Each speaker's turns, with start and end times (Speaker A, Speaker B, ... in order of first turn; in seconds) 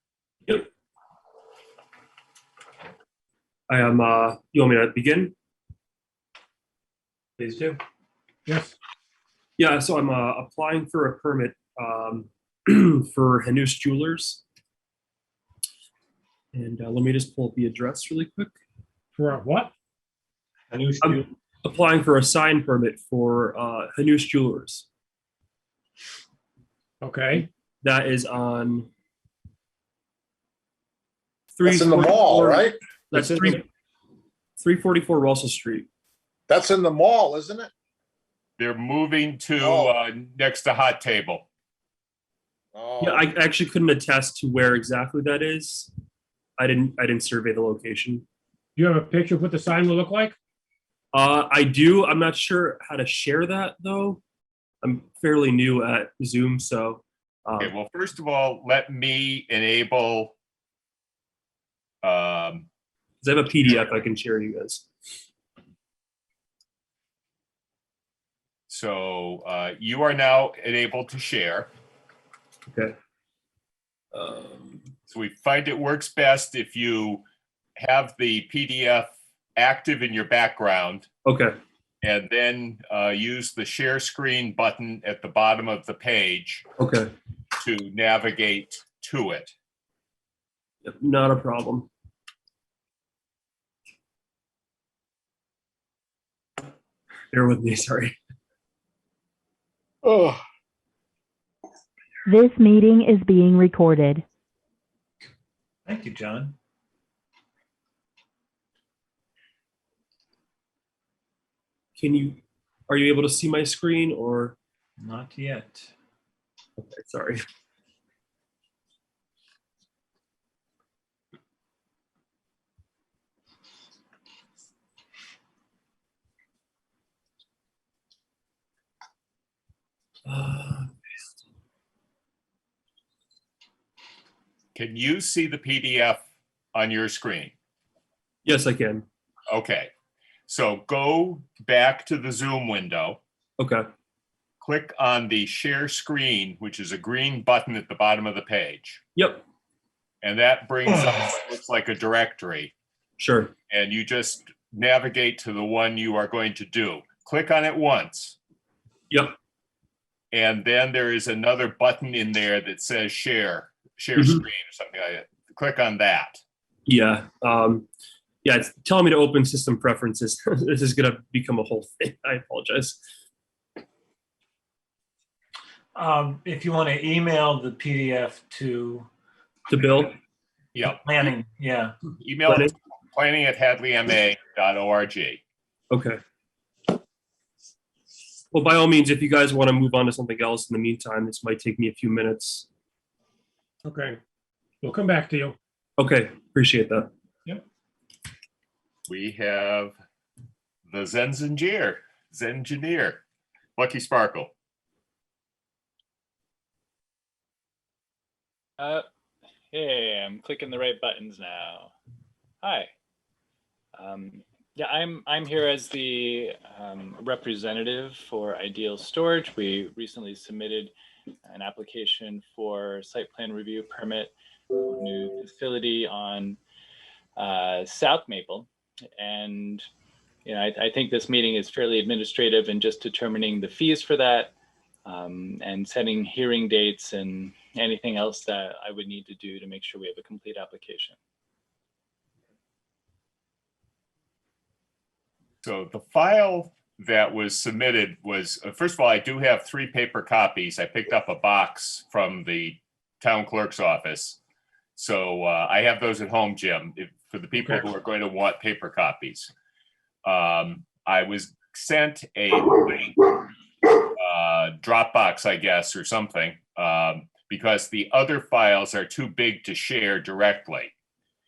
Speaker A: 3.7-5.3, 9.6-14.4, 16.5-18.6, 21.0-24.9, 27.8-28.9, 31.6-33.7, 34.6-35.9, 43.0-45.9, 46.6-48.2, 51.1-54.2, 54.8-57.7, 63.2-64.9, 72.7-72.9, 74.1-74.9, 81.2-81.5, 86.8-87.1, 90.8-91.9, 97.3-98.2, 112.0-114.5, 116.8-117.4, 130.3-130.9, 138.4-139.1, 149.2-149.4, 153.2-153.5, 159.1-159.3, 164.2-164.4, 166.9-167.9, 168.4-173.0, 179.7-180.1, 182.4-182.7, 185.9-186.2, 188.5-192.7, 196.0-197.1
Speaker B: 7.4-7.8, 20.7-21.3, 105.8-106.5, 115.0-115.9, 175.9-179.1, 181.0-181.9
Speaker C: 8.4-8.8, 19.1-19.7, 27.0-27.5, 48.8-50.4, 193.8-194.2, 194.8-195.6
Speaker D: 31.6-33.6, 36.5-37.7, 39.6-39.9, 42.7-43.3, 100.0-100.4
Speaker E: 38.6-41.5, 57.6-60.3, 62.0-62.7, 68.7-71.7, 75.1-77.2, 77.8-81.1, 82.0-86.7, 87.6-89.5, 134.7-136.2, 136.7-137.5, 139.5-139.9, 140.5-143.2, 144.6-149.0, 150.2-152.7, 153.7-158.4, 160.3-166.4, 180.7-181.3, 182.2-185.4, 199.1-199.9, 200.9-203.2, 203.8-204.5, 245.6-254.4, 254.9-259.5, 260.2-263.1, 264.1-270.9
Speaker F: 102.2-104.2
Speaker G: 208.8-209.0, 209.7-211.9, 212.6-212.9, 213.9-220.9, 221.4-226.6, 227.4-229.8, 230.4-234.5, 235.0-241.2